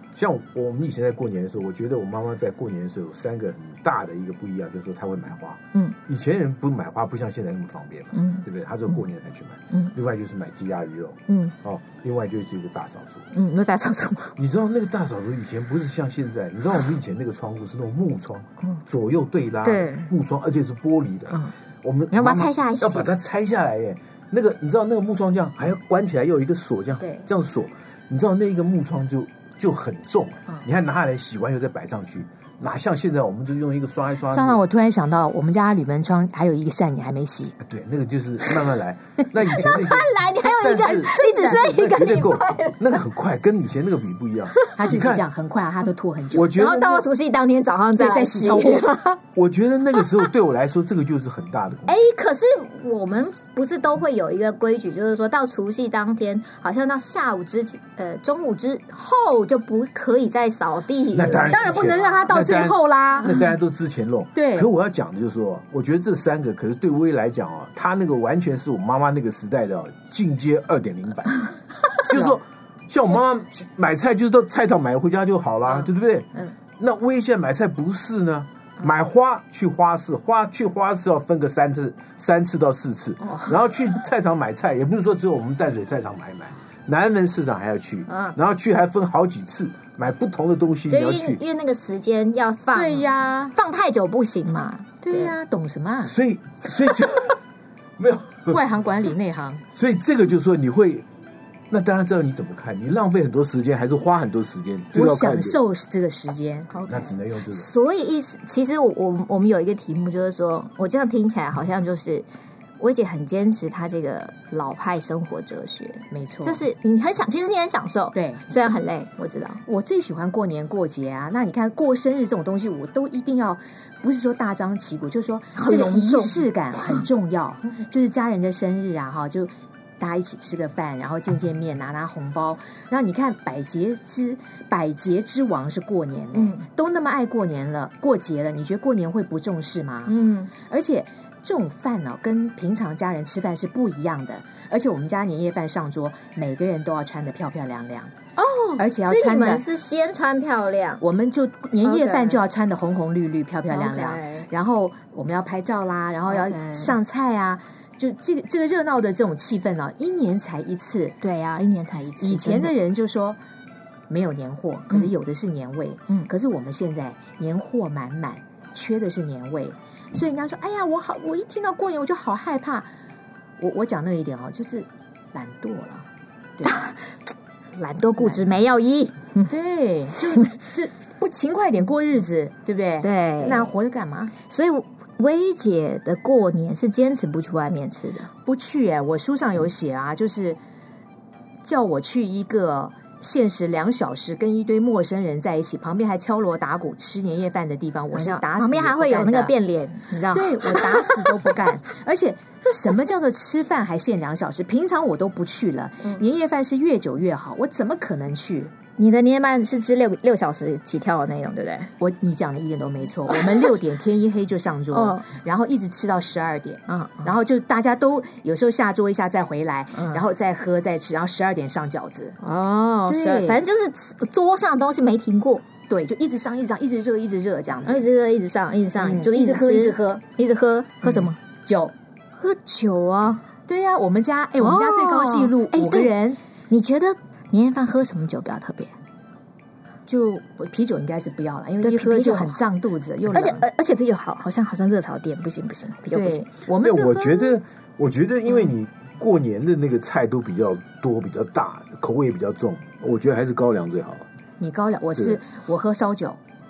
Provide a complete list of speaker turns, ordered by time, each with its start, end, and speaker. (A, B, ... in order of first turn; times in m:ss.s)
0:00.1-0:13.2 A
0:08.1-0:09.0 B
0:11.3-0:11.5 B
0:13.3-0:14.4 B
0:14.4-0:34.6 A
0:19.6-0:20.1 B
0:22.1-0:23.1 B
0:27.0-0:27.3 B
0:34.3-0:37.5 C
0:37.6-0:45.2 A
0:39.4-0:43.0 B
0:40.8-0:41.9 C
0:44.7-0:46.5 C
0:46.3-0:47.1 A
0:46.5-0:49.2 B
0:48.0-0:49.0 C
0:49.3-0:52.0 A
0:50.0-0:50.3 B
0:51.9-1:02.2 B
1:01.1-1:31.4 A
1:01.5-1:03.3 C
1:03.2-1:03.5 B
1:04.3-1:04.7 C
1:12.0-1:12.4 C
1:23.2-1:23.9 B
1:28.1-1:28.4 B
1:30.9-1:35.3 B
1:32.7-1:33.5 C
1:35.0-1:36.1 C
1:36.0-1:37.4 A
1:38.0-1:38.6 A
1:38.5-1:39.6 C
1:39.7-1:41.0 A
1:41.7-1:45.6 A
1:44.9-1:46.8 C
1:46.7-1:52.3 B
1:46.9-1:47.7 A
1:52.8-1:59.6 B
1:56.1-1:56.6 C
1:58.1-1:58.4 C
1:59.6-2:28.1 C
2:05.6-2:07.0 B
2:16.3-2:16.7 B
2:20.0-2:20.5 B
2:28.4-2:31.0 B
2:28.8-2:29.6 C
2:31.0-2:41.2 C
2:31.8-2:32.4 B
2:33.7-2:34.5 B
2:36.3-2:36.9 B
2:41.2-2:42.7 B
2:42.2-2:43.4 C
2:44.1-2:52.9 C
2:53.6-2:56.0 C
2:56.6-2:57.0 B
2:57.8-2:59.5 B
2:58.2-2:58.5 C
2:59.5-3:04.3 C
3:00.2-3:00.5 B
3:03.0-3:03.7 B
3:04.4-3:08.3 B
3:08.4-3:10.6 C
3:11.6-3:19.5 C
3:18.1-3:21.6 B
3:20.3-3:28.7 C
3:29.0-3:31.9 B
3:32.0-3:42.4 C
3:33.3-3:33.7 B
3:34.9-3:35.2 B
3:36.9-3:37.3 B
3:39.9-3:40.2 B
3:42.4-3:45.6 B
3:43.1-3:43.6 C
3:45.9-3:48.1 C
3:47.8-3:51.4 B
3:49.0-3:50.2 C
3:51.0-3:51.9 C
3:52.4-3:53.4 B
3:53.7-3:56.4 C
3:54.6-3:56.1 B
3:56.7-3:58.9 B
4:00.1-4:03.6 C
4:01.8-4:02.6 B
4:03.3-4:06.4 B
4:06.1-4:07.6 C
4:06.8-4:14.2 A
4:14.6-4:16.4 C